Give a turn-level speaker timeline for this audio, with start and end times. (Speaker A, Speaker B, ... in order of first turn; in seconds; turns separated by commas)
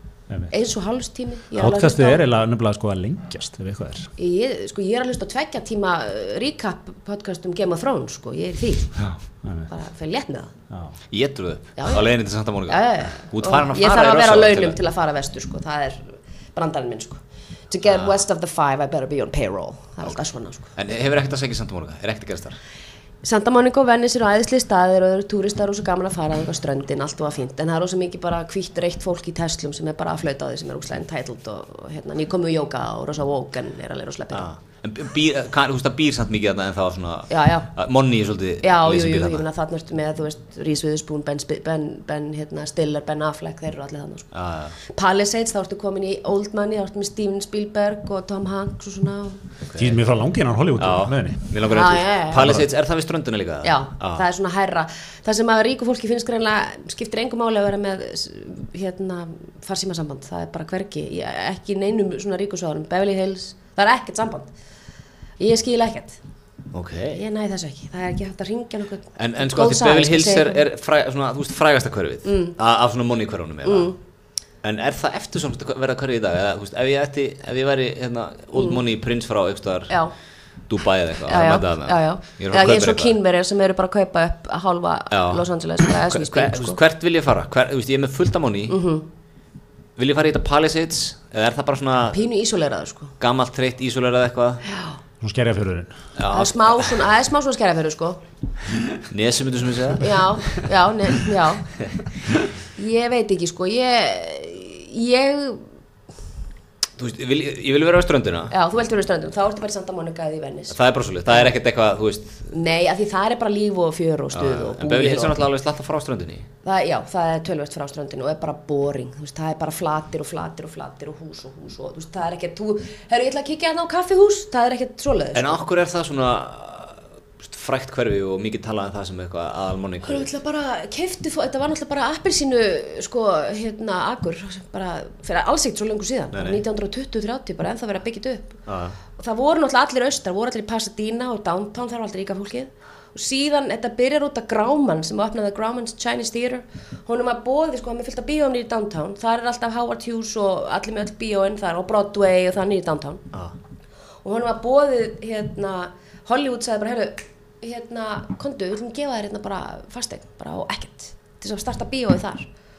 Speaker A: 0.5-2.2, Speaker B: 1.6-4.1, Speaker A: 4.2-9.0, Speaker B: 9.0-9.7, Speaker A: 9.7-10.5, Speaker C: 11.1-14.8, Speaker A: 11.8-12.1, Speaker A: 12.7-20.7, Speaker C: 17.9-18.2, Speaker C: 20.8-22.6, Speaker A: 23.2-34.5, Speaker C: 34.3-39.4, Speaker A: 37.3-37.7, Speaker A: 38.6-44.3, Speaker C: 44.3-44.8, Speaker A: 44.8-49.4, Speaker C: 49.6-50.0, Speaker B: 49.8-51.6, Speaker C: 50.8-54.2, Speaker A: 51.6-52.6, Speaker B: 52.3-52.7, Speaker A: 53.6-64.5, Speaker A: 65.4-66.2, Speaker C: 66.7-67.2, Speaker A: 67.1-70.6, Speaker C: 69.2-73.9, Speaker A: 72.2-72.6, Speaker A: 73.6-74.0, Speaker C: 74.6-80.1, Speaker A: 78.5-78.8, Speaker C: 80.7-83.1, Speaker A: 81.3-86.8, Speaker C: 85.1-88.8, Speaker A: 88.7-89.0, Speaker C: 90.0-92.2, Speaker A: 92.1-93.1, Speaker C: 93.2-94.6, Speaker A: 94.7-95.0, Speaker B: 95.2-96.0, Speaker C: 96.2-97.0, Speaker A: 96.3-98.2, Speaker C: 99.1-100.5, Speaker A: 100.0-101.7, Speaker A: 102.8-105.7, Speaker C: 107.0-108.5, Speaker A: 108.5-111.5, Speaker C: 110.7-112.5, Speaker A: 112.5-115.4, Speaker C: 114.3-116.5, Speaker A: 116.6-125.6, Speaker C: 125.3-130.3, Speaker A: 130.0-138.6, Speaker C: 136.3-136.6, Speaker C: 138.7-139.0, Speaker A: 139.2-153.2, Speaker A: 154.2-162.5